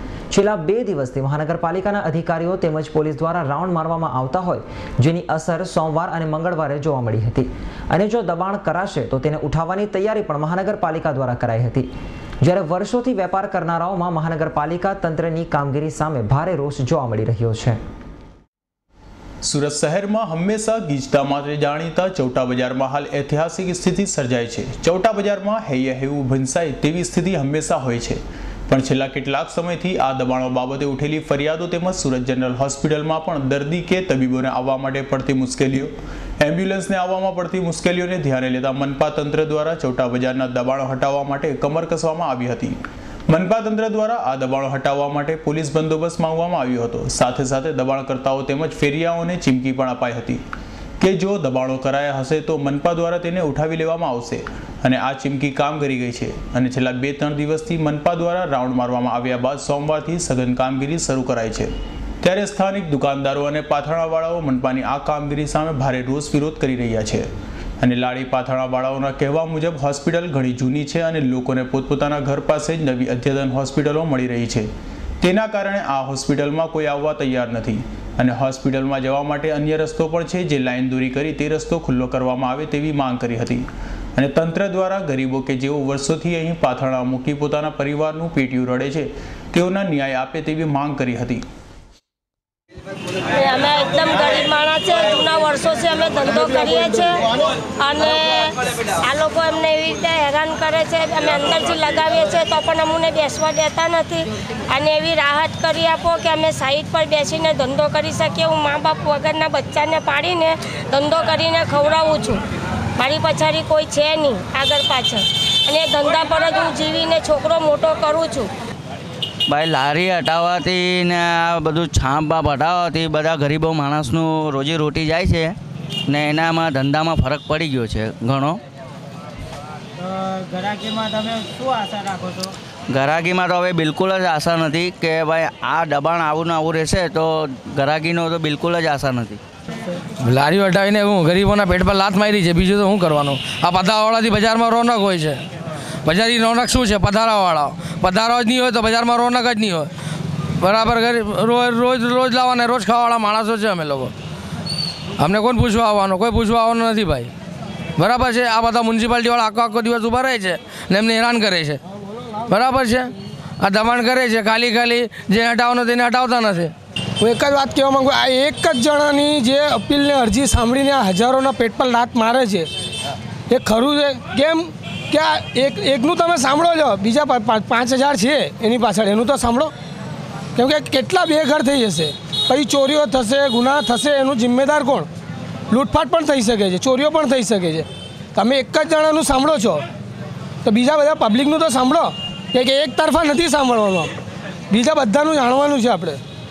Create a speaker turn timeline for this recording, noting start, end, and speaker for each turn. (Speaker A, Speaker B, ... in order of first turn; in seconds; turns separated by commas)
Speaker A: 0.3-11.9, Speaker A: 12.4-17.8, Speaker B: 19.4-42.8, Speaker B: 43.3-50.4, Speaker B: 51.0-61.7, Speaker B: 62.2-67.2, Speaker B: 67.8-74.7, Speaker B: 75.2-91.4, Speaker C: 93.3-112.4, Speaker C: 113.0-118.5, Speaker D: 119.5-125.5, Speaker D: 126.1-128.6, Speaker E: 130.2-132.5, Speaker D: 132.9-139.4, Speaker F: 140.2-145.4, Speaker F: 146.0-149.9, Speaker F: 150.6-154.1, Speaker F: 155.2-157.3, Speaker F: 158.0-161.8, Speaker F: 162.5-166.7, Speaker G: 167.2-172.7, Speaker G: 173.5-179.7, Speaker G: 180.6-185.1, Speaker G: 185.7-189.8, Speaker G: 190.6-194.1, Speaker G: 194.7-196.2